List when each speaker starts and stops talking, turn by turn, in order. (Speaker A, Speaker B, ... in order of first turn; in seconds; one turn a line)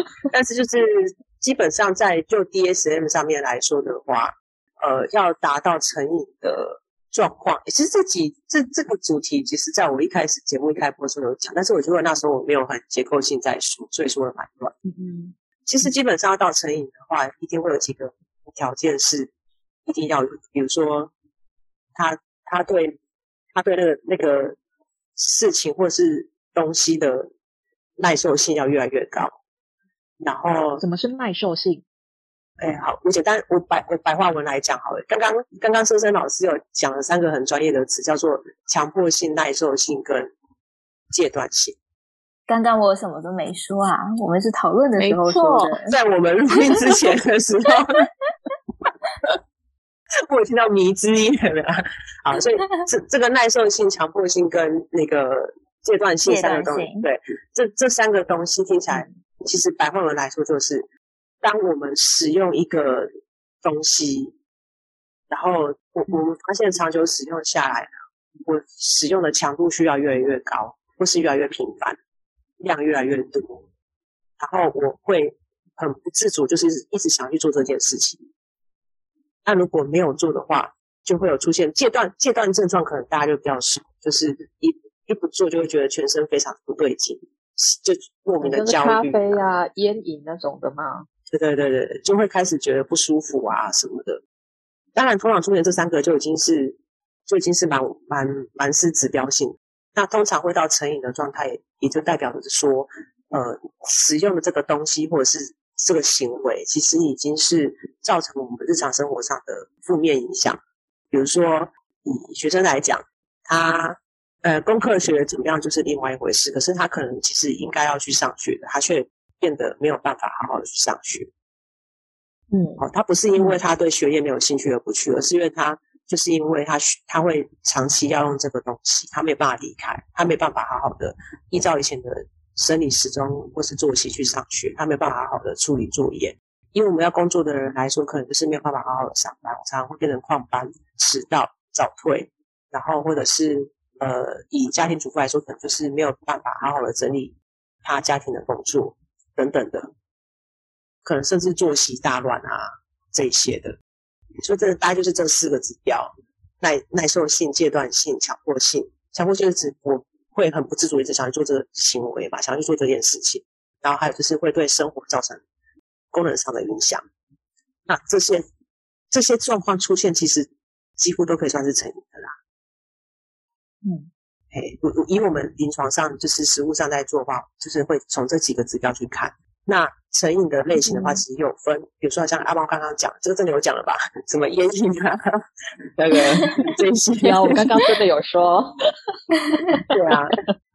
Speaker A: 0.3-14.7
Speaker B: 14.8-15.9
Speaker A: 15.7-19.3
Speaker A: 19.9-21.1
Speaker A: 21.9-22.9
Speaker A: 23.5-24.6
Speaker A: 25.2-27.3
Speaker A: 28.0-29.4
Speaker A: 30.2-30.8
Speaker B: 30.8-31.8
Speaker A: 32.6-40.3
Speaker A: 41.1-41.8
Speaker C: 42.5-45.9
Speaker B: 45.0-45.7
Speaker A: 45.9-48.1
Speaker A: 50.3-60.9
Speaker C: 56.2-57.0
Speaker B: 58.9-59.1
Speaker A: 61.4-63.1
Speaker A: 63.6-64.3
Speaker A: 65.3-67.9
Speaker A: 68.4-72.0
Speaker A: 72.6-73.6
Speaker A: 74.4-78.2
Speaker A: 79.4-89.4
Speaker B: 88.4-91.0
Speaker A: 91.3-94.2
Speaker A: 95.0-110.6
Speaker A: 111.1-121.3
Speaker B: 122.5-122.8
Speaker A: 122.8-149.9
Speaker B: 123.3-123.6
Speaker A: 151.0-153.8
Speaker A: 154.4-165.4
Speaker A: 166.1-167.0
Speaker A: 167.9-168.4
Speaker A: 169.1-172.3
Speaker B: 173.8-174.1
Speaker A: 174.5-185.2
Speaker B: 180.8-181.2
Speaker A: 185.9-187.6
Speaker B: 187.2-188.7
Speaker A: 189.9-190.3